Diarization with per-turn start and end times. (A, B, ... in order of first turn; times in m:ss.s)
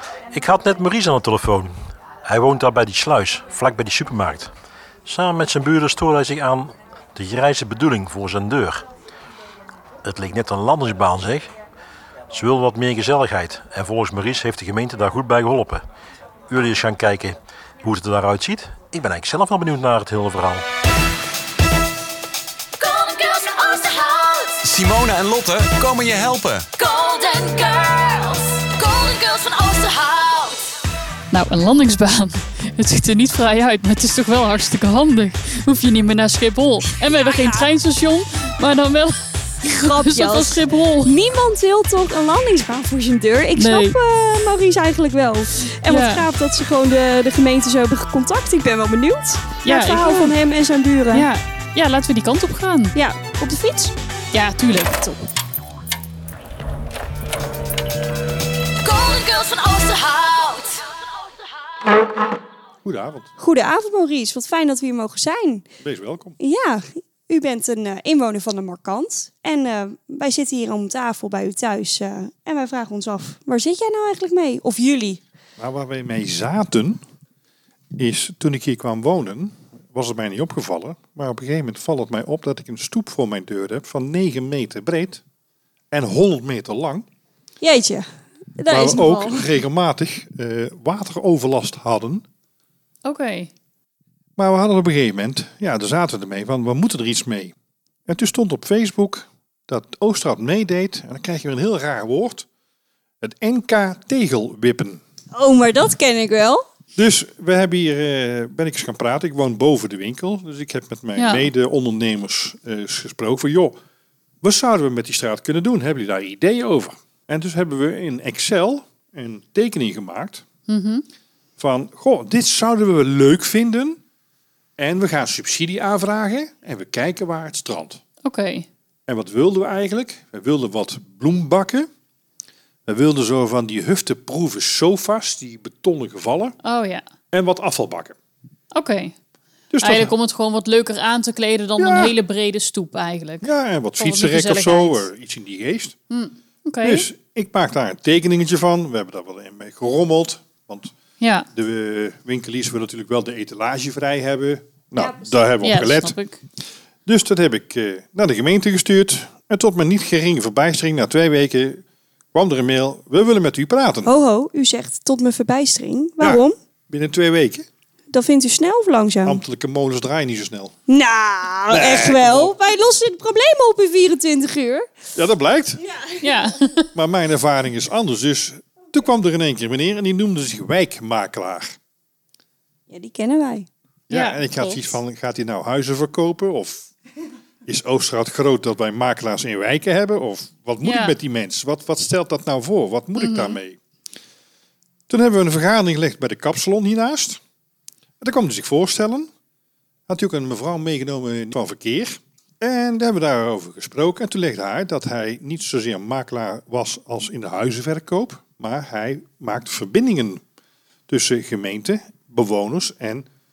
0:00.3-0:04.5 A
0:05.0-0:08.9 A
0:10.0-0:11.5 A
0:12.3-0:15.8 A
0:16.5-0:20.7 A
0:22.8-0:24.7 B
0:24.6-0:26.7 C
0:26.6-0:30.6 B
0:31.3-0:41.1 D
0:39.6-0:51.3 E
0:43.6-0:44.0 D
0:45.8-0:46.2 D
0:49.6-0:50.4 D
0:51.1-0:53.0 D
0:52.9-0:53.9 E
0:54.3-0:55.2 D
0:58.8-1:00.8 B
1:02.8-1:03.3 F
1:03.4-1:05.6 E
1:05.8-1:06.4 F
1:06.4-1:15.2 E
1:15.6-1:17.0 F
1:18.0-1:25.2 F
1:25.9-1:27.0 F
1:27.6-1:28.0 E
1:28.6-1:29.4 E
1:28.7-1:32.2 F
1:33.0-1:33.5 D
1:34.4-1:37.5 F
1:38.1-1:42.4 F
1:43.2-1:45.0 F
1:45.3-1:46.6 E
1:47.0-1:53.8 F
1:51.2-1:51.5 D
1:54.4-2:00.4 F
2:00.7-2:01.0 D
2:01.6-2:04.0 F
2:04.8-2:08.0 F
2:08.2-2:08.7 D
2:09.1-2:11.9 F
2:12.9-2:16.6 F
2:16.6-2:17.0 D
2:17.3-2:18.2 F
2:18.7-2:19.1 D
2:19.7-2:20.2 F
2:19.8-2:25.0 D
2:21.8-2:22.1 F
2:23.4-2:26.0 F
2:26.1-2:27.0 D
2:26.8-2:30.9 F
2:31.2-2:31.5 D
2:31.5-2:36.2 F
2:35.0-2:35.4 E
2:35.6-2:36.4 D
2:37.0-2:41.8 F
2:42.3-2:44.1 F
2:44.0-2:46.5 E
2:46.2-2:47.6 F
2:48.1-2:49.4 E
2:49.2-2:50.7 F
2:50.9-2:54.8 E
2:51.7-2:52.5 F
2:55.1-2:55.8 F
2:55.8-2:56.2 E
2:56.2-2:56.9 D
2:56.9-3:01.7 F
3:02.9-3:03.7 E
3:04.1-3:06.9 F
3:04.1-3:05.0 D
3:07.6-3:13.8 F
3:10.8-3:11.1 D
3:13.2-3:13.6 D
3:15.1-3:17.4 F
3:18.2-3:19.3 F
3:20.1-3:30.4 F
3:31.1-3:33.2 F